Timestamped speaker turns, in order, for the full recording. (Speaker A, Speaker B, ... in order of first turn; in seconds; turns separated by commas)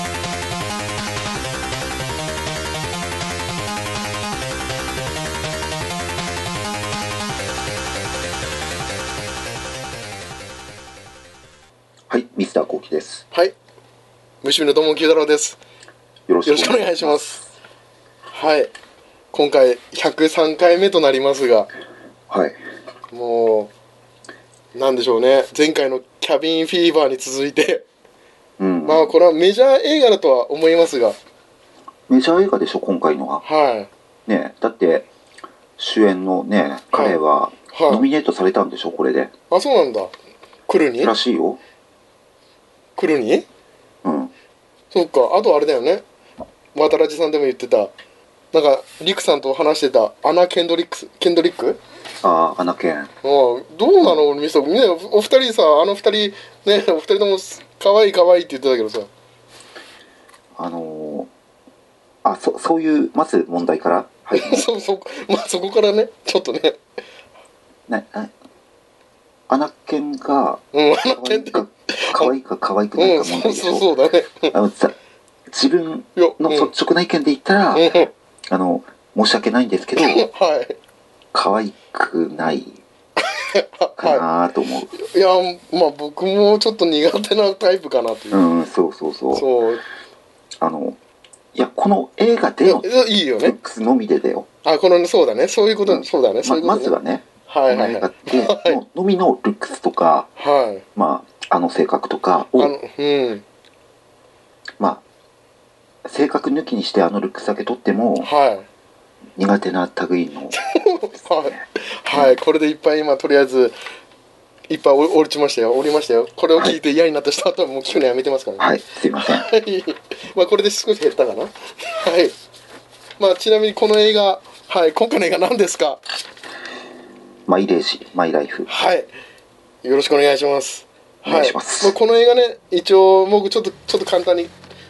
Speaker A: 12.1-13.2, Speaker B: 14.4-15.6, Speaker A: 16.3-17.4, Speaker B: 16.5-17.4, Speaker B: 18.3-18.7, Speaker B: 19.3-21.7, Speaker A: 22.3-22.6, Speaker B: 23.1-23.7, Speaker B: 24.8-27.9, Speaker A: 28.6-29.1, Speaker B: 28.9-31.2, Speaker A: 32.1-33.4, Speaker B: 33.4-33.9, Speaker A: 34.3-35.1, Speaker A: 35.8-39.3, Speaker B: 36.9-37.2, Speaker B: 37.7-38.0, Speaker B: 39.5-40.1, Speaker B: 40.7-41.1, Speaker A: 41.0-41.6, Speaker B: 43.0-43.5, Speaker A: 44.0-44.3, Speaker B: 44.9-46.0, Speaker B: 46.8-47.9, Speaker B: 48.5-51.8, Speaker A: 52.2-53.1, Speaker B: 53.2-59.1, Speaker A: 60.6-61.3, Speaker A: 62.2-64.7, Speaker B: 64.3-66.8, Speaker A: 67.9-68.3, Speaker A: 69.5-73.9, Speaker B: 70.7-72.3, Speaker B: 73.0-74.5, Speaker A: 74.5-75.0, Speaker A: 75.5-77.9, Speaker B: 76.2-76.7, Speaker B: 77.7-78.1, Speaker A: 78.5-80.3, Speaker B: 80.0-80.8, Speaker A: 81.3-82.8, Speaker B: 83.2-84.2, Speaker A: 84.0-84.9, Speaker B: 84.9-88.5, Speaker A: 88.3-89.5, Speaker B: 89.3-89.8, Speaker A: 90.6-91.0, Speaker A: 91.5-92.9, Speaker B: 92.6-93.6, Speaker A: 93.4-94.5, Speaker B: 94.7-96.9, Speaker A: 95.8-100.3, Speaker B: 97.5-98.8, Speaker B: 100.4-100.8, Speaker A: 101.0-102.7, Speaker B: 102.6-103.5, Speaker A: 106.0-108.3, Speaker B: 108.2-108.7, Speaker A: 109.4-110.6, Speaker B: 110.5-113.8, Speaker B: 114.7-118.6, Speaker A: 118.6-119.5, Speaker B: 119.2-122.3, Speaker B: 123.2-126.0, Speaker A: 127.5-128.7, Speaker B: 128.7-129.1, Speaker B: 129.8-134.5, Speaker A: 131.2-131.9